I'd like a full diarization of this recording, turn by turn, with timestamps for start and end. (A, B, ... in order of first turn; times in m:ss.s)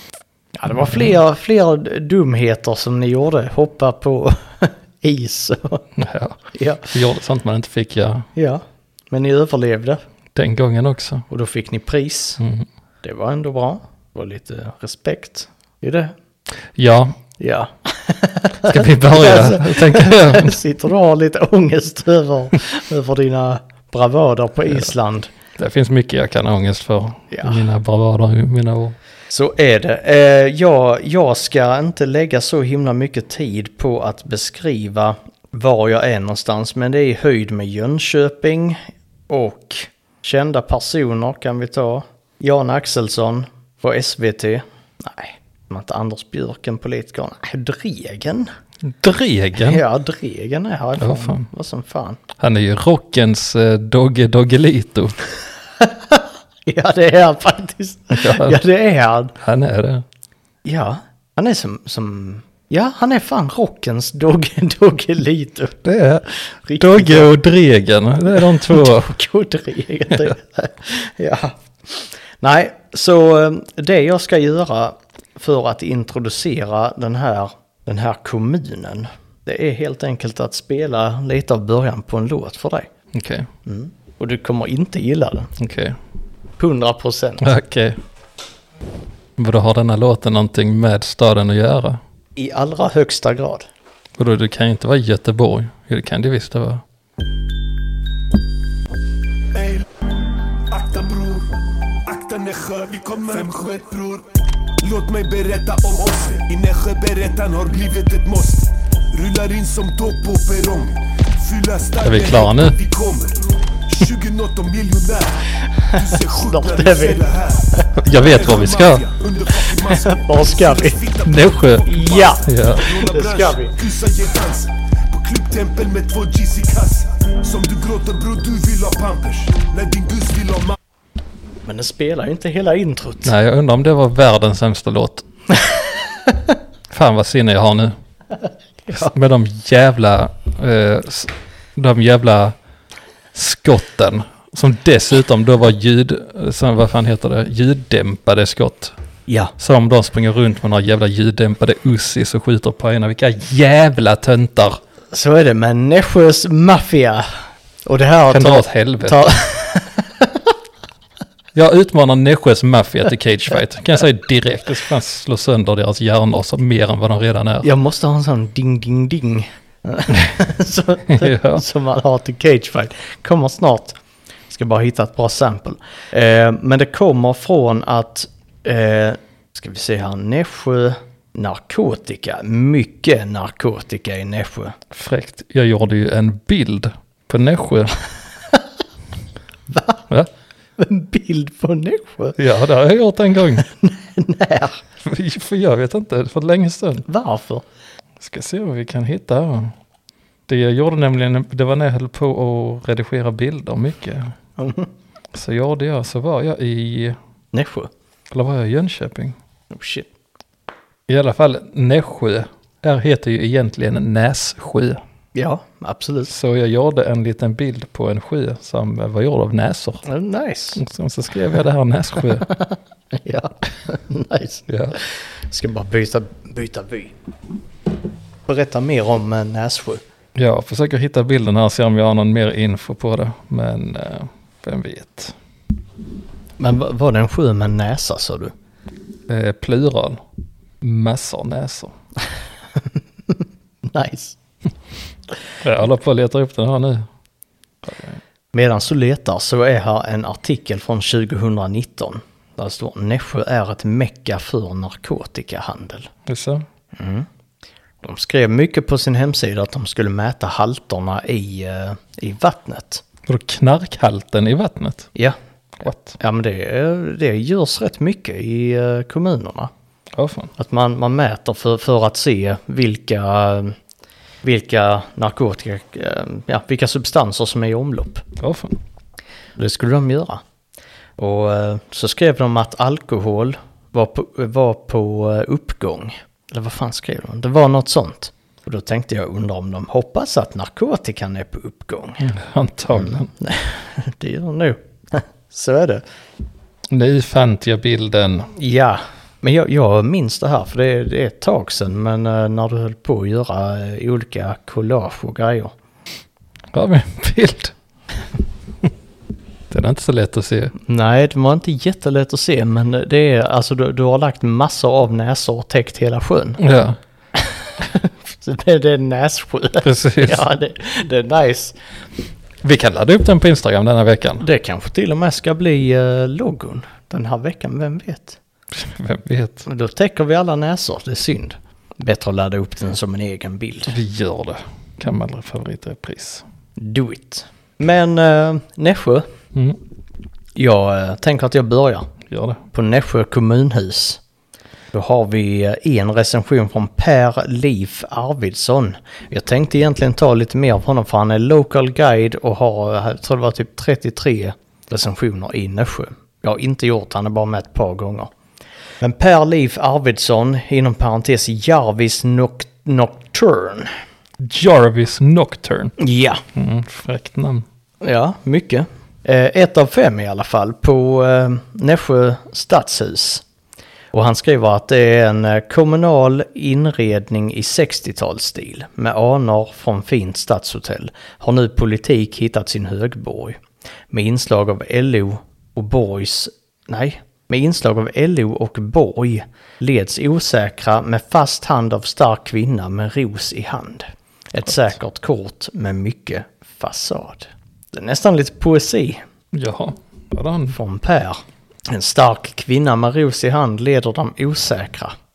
0:00.5-0:05.8 A
0:06.0-0:08.3 B
0:06.5-0:06.9 A
0:08.4-0:10.0 A
0:10.3-0:11.3 B
0:11.3-0:12.4 A
0:12.4-0:12.7 B
0:13.0-0:16.1 A
0:16.8-0:17.2 B
0:17.4-0:25.3 A
0:18.6-0:20.6 B
0:25.6-0:29.0 B
0:27.3-0:27.6 A
0:29.3-0:48.5 A
0:48.8-0:49.8 B
0:49.6-0:52.2 A
0:51.0-0:51.5 B
0:52.4-0:55.2 B
0:55.8-0:59.3 A
0:58.1-0:58.6 B
0:59.4-1:00.0 B
1:00.6-1:05.8 A
1:05.8-1:09.1 B
1:06.4-1:07.3 A
1:08.3-1:22.9 A
1:23.1-1:23.5 B
1:23.6-1:25.5 A
1:25.6-1:26.0 B
1:26.6-1:27.5 A
1:27.4-1:28.0 B
1:29.4-1:32.0 B
1:32.4-1:33.7 A
1:34.2-1:36.8 B
1:39.5-1:39.9 C
1:40.7-2:10.8 C
1:52.0-1:52.8 B
1:55.8-1:58.0 A
1:58.0-1:59.1 B
1:59.7-2:01.0 A
2:01.2-2:02.9 B
2:01.9-2:03.8 A
2:11.7-2:13.3 A
2:13.2-2:15.2 B
2:16.9-2:18.0 B
2:18.9-2:19.1 A
2:18.9-2:22.6 B
2:23.3-2:28.9 B
2:29.3-2:29.5 A
2:29.6-2:34.8 B
2:35.1-2:37.3 A
2:37.9-2:40.5 A
2:38.3-2:39.3 B
2:41.5-2:47.7 B
2:47.6-2:54.0 A
2:51.1-2:51.6 B
2:54.5-3:04.8 A
3:04.9-3:08.0 B
3:09.7-3:10.1 A
3:10.8-3:12.4 A
3:12.4-3:13.6 B
3:13.6-3:14.8 A
3:15.0-3:17.1 B
3:17.1-3:17.6 A
3:18.2-3:19.8 B
3:20.5-3:24.3 B
3:24.6-3:24.9 A
3:25.3-3:27.2 B
3:27.5-3:27.9 A
3:28.3-3:29.4 B
3:29.7-3:30.1 A
3:31.1-3:35.0 B
3:35.4-3:36.3 A
3:36.3-3:40.0 B
3:40.0-3:40.8 A
3:40.8-3:42.5 B
3:42.5-3:47.1 A
3:44.7-3:45.0 B
3:48.5-3:50.0 A
3:50.4-3:55.4 B
3:56.6-3:58.5 A
3:59.3-4:00.2 B
4:00.8-4:01.9 B
4:03.3-4:04.4 A
4:05.6-4:07.1 B
4:07.8-4:08.2 B
4:08.5-4:16.1 A
4:16.3-4:16.6 B
4:17.0-4:17.3 A
4:18.0-4:23.0 A
4:23.3-4:25.1 B
4:25.8-4:26.2 B
4:26.2-4:29.7 A
4:30.2-4:30.5 B
4:30.6-4:33.8 A
4:34.4-4:38.2 A
4:38.4-4:38.8 B
4:39.6-4:40.4 A
4:41.2-4:52.3 A
4:52.2-4:53.3 B
4:52.9-4:56.0 A
4:56.9-4:58.5 B
4:58.6-5:05.7 A
5:06.7-5:07.7 B
5:09.7-5:10.7 B
5:10.8-5:16.6 A
5:16.6-5:17.0 B
5:17.4-5:21.8 A
5:19.8-5:20.4 B
5:22.6-5:24.4 B
5:24.4-5:28.4 A
5:28.7-5:29.7 B
5:29.7-5:34.0 A
5:33.9-5:36.4 B
5:36.8-5:39.3 A
5:40.6-5:42.1 A
5:42.3-5:42.6 B
5:42.7-5:44.2 A
5:44.9-5:58.3 A
5:59.0-6:03.9 A
6:04.4-6:05.9 B
6:06.0-6:06.4 A
6:06.6-6:07.6 B
6:08.0-6:13.4 A
6:14.1-6:39.2 A
6:39.5-6:40.8 B
6:40.7-6:45.2 A